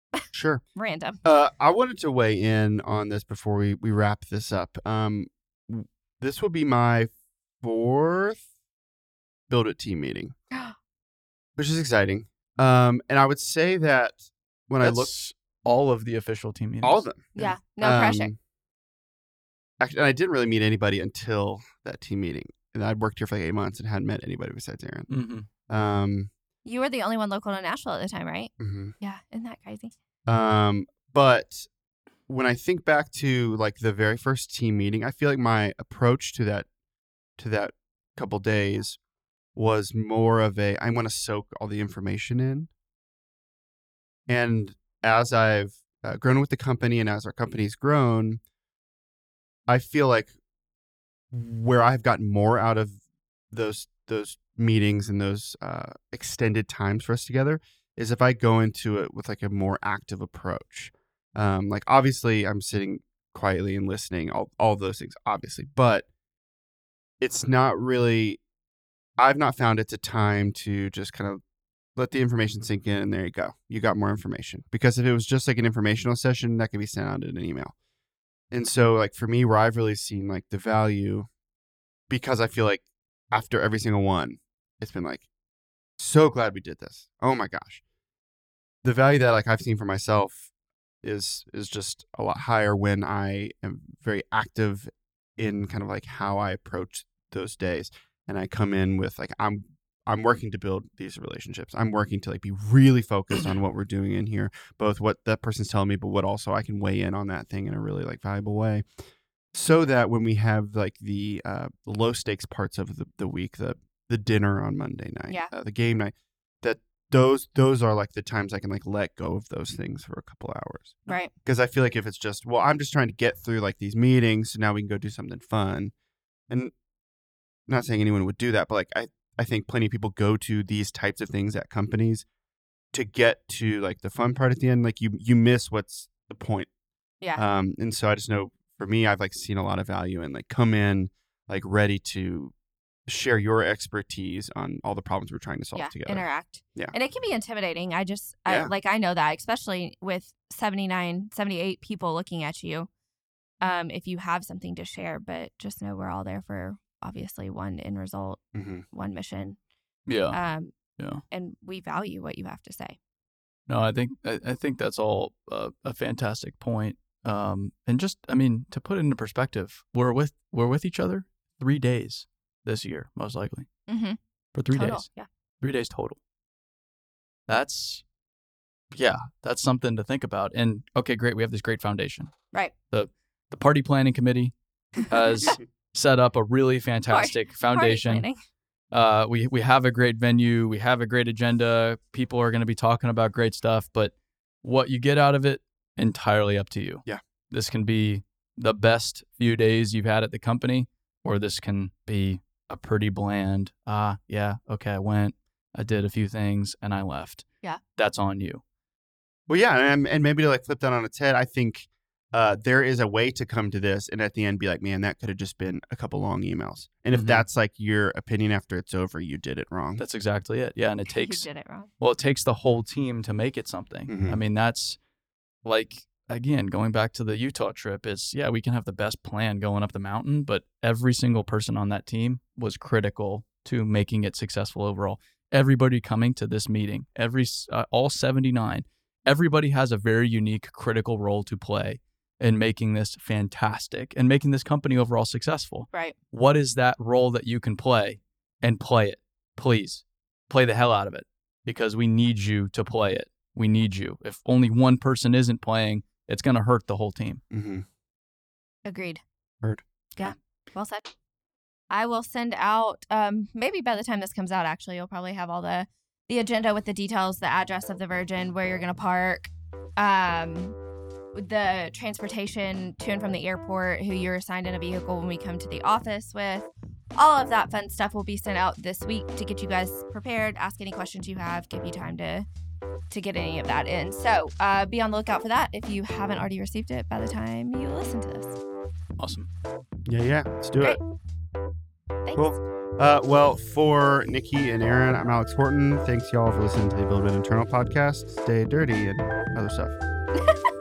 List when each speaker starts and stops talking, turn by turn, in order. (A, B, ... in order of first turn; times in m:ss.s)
0:00.3-0:00.6 A
0:00.8-0:01.2 B
0:01.2-0:08.4 A
0:09.5-0:10.3 A
0:11.6-0:15.1 A
0:14.8-0:17.0 C
0:16.8-0:18.3 A
0:17.4-0:18.3 B
0:19.8-0:25.1 A
0:25.1-0:25.5 C
0:25.7-0:26.3 A
0:26.6-0:29.9 B
0:28.6-0:28.9 A
0:30.3-0:31.7 A
0:32.3-0:36.7 A
0:37.4-0:39.0 A
0:39.6-0:42.7 A
0:44.3-0:48.4 A
0:49.7-0:50.3 A
0:51.3-0:52.9 A
0:53.5-1:06.0 A
1:07.2-1:08.4 A
1:09.2-1:11.4 A
1:12.0-1:17.7 A
1:18.5-1:21.3 A
1:22.1-1:25.3 A
1:26.0-1:27.8 A
1:28.8-1:30.4 A
1:31.0-1:48.8 A
1:49.5-2:05.9 A
2:07.7-2:12.3 A
2:12.9-2:16.7 A
2:17.4-2:22.5 A
2:23.1-2:26.9 A
2:25.7-2:32.9 B
2:28.4-2:28.7 A
2:33.6-2:39.6 B
2:38.6-2:38.8 A
2:40.1-2:40.4 C
2:40.3-2:40.7 B
2:41.3-2:43.0 B
2:43.7-2:53.7 C
2:53.9-2:54.2 B
2:54.6-2:55.1 C
2:54.7-2:55.3 B
2:55.6-2:56.2 C
2:57.5-2:58.0 C
2:58.9-3:02.3 C
3:02.9-3:08.2 C
3:05.1-3:05.6 B
3:07.1-3:08.4 B
3:08.9-3:27.4 C
3:28.0-3:28.6 C
3:29.5-3:40.0 A
3:37.1-3:37.4 C
3:40.0-3:41.5 C
3:41.1-3:41.9 B
3:42.0-3:45.0 C
3:44.1-3:44.4 A
3:45.6-4:17.4 C
4:17.5-4:17.8 A
4:18.9-4:19.2 B
4:20.2-4:21.1 B
4:21.9-4:30.8 B
4:31.3-4:42.4 B
4:43.1-4:48.6 B
4:49.2-4:49.5 C
4:50.1-4:51.0 A
4:52.3-4:59.9 A